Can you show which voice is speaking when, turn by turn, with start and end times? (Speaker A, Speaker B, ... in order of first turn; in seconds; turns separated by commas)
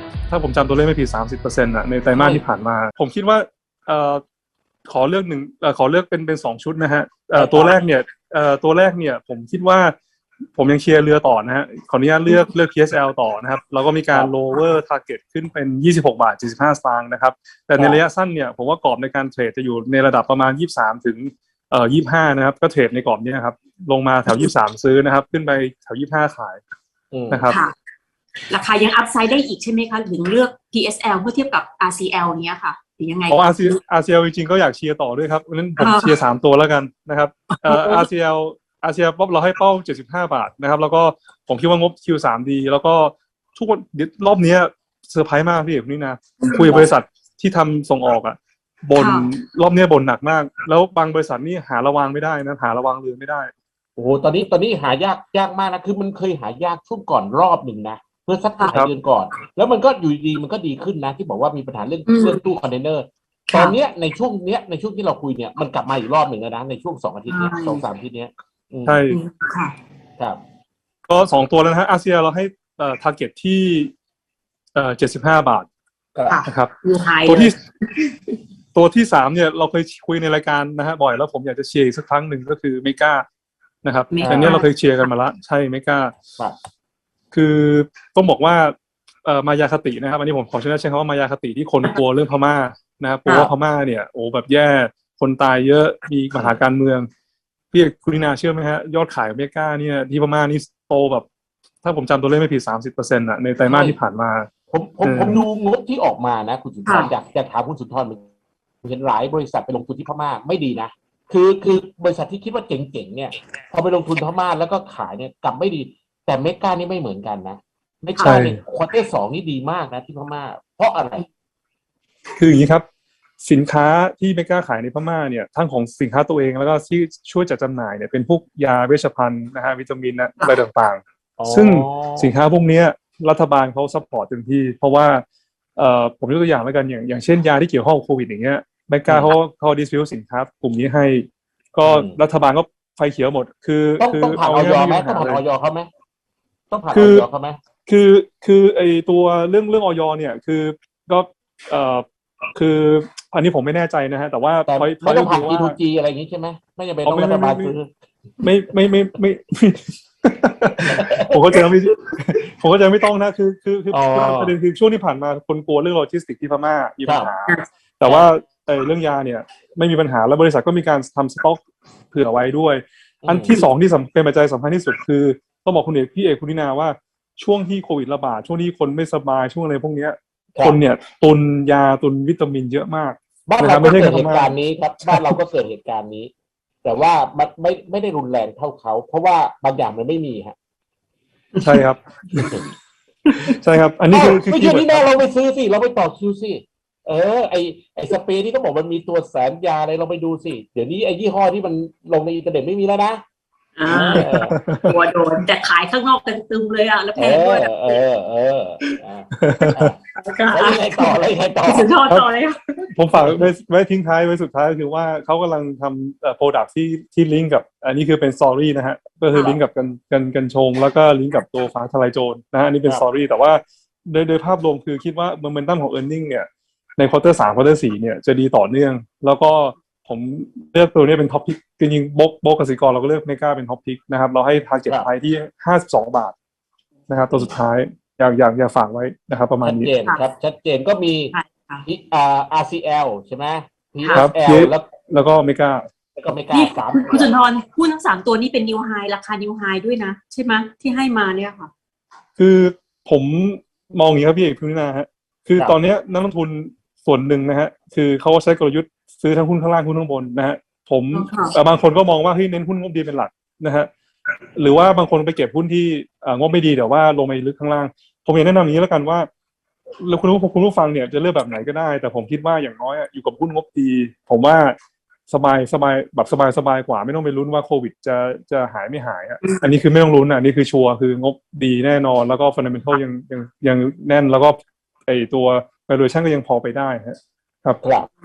Speaker A: 0.3-4.2, Speaker B: 2.1-2.4, Speaker A: 4.9-9.9, Speaker B: 7.3-7.8, Speaker A: 10.6-26.6, Speaker B: 27.1-27.5, Speaker A: 27.3-27.6, Speaker C: 27.5-27.7, Speaker C: 28.5-33.8, Speaker A: 33.3-53.5, Speaker C: 35.8-36.1, Speaker C: 37.5-38.1, Speaker C: 46.4-46.9, Speaker C: 49.0-49.3, Speaker B: 54.0-69.0, Speaker C: 62.1-62.4, Speaker C: 63.5-63.8, Speaker C: 67.3-67.8, Speaker A: 68.9-69.2, Speaker C: 69.1-69.8, Speaker A: 71.1-73.9, Speaker A: 74.8-75.7, Speaker B: 76.2-76.4, Speaker C: 76.3-77.5, Speaker A: 76.5-76.7, Speaker A: 77.2-77.5, Speaker A: 78.7-83.3, Speaker A: 83.8-86.2, Speaker C: 84.1-84.7, Speaker B: 84.2-84.6, Speaker A: 87.3-97.1, Speaker C: 93.3-93.5, Speaker A: 97.7-101.3, Speaker A: 101.8-104.5, Speaker B: 103.7-104.0, Speaker B: 104.7-108.3, Speaker A: 105.0-105.4, Speaker B: 108.8-121.3, Speaker A: 118.2-118.6, Speaker A: 122.4-122.8, Speaker A: 123.4-135.2, Speaker B: 131.4-132.3, Speaker A: 135.8-145.4, Speaker B: 139.1-139.3, Speaker B: 141.8-142.2, Speaker B: 144.0-145.9, Speaker B: 146.7-147.6, Speaker A: 146.9-147.3, Speaker A: 147.9-155.8, Speaker B: 154.7-157.9, Speaker A: 157.1-157.7, Speaker A: 158.4-184.5, Speaker B: 160.9-161.4, Speaker B: 163.9-164.6, Speaker B: 167.1-167.3, Speaker B: 173.2-173.6, Speaker B: 183.5-186.3, Speaker A: 185.0-185.3, Speaker B: 186.8-190.6, Speaker C: 191.5-191.8, Speaker A: 191.6-192.6, Speaker B: 192.4-192.7, Speaker C: 193.3-193.5, Speaker A: 193.4-195.1, Speaker B: 194.1-203.2, Speaker C: 203.8-208.0, Speaker A: 203.9-204.9, Speaker B: 204.1-204.6, Speaker B: 207.2-210.0, Speaker A: 209.4-209.9, Speaker C: 210.1-213.5, Speaker B: 210.5-211.9, Speaker A: 212.9-226.5, Speaker C: 219.3-219.6, Speaker A: 227.0-236.3, Speaker A: 237.1-239.9, Speaker B: 239.6-241.3, Speaker C: 241.3-241.8, Speaker B: 241.9-244.9, Speaker A: 244.2-245.9, Speaker B: 246.2-247.3, Speaker C: 246.5-251.7, Speaker A: 252.4-263.9, Speaker C: 261.1-261.6, Speaker A: 264.6-269.3, Speaker A: 270.0-274.8, Speaker A: 275.3-287.8, Speaker B: 287.8-288.1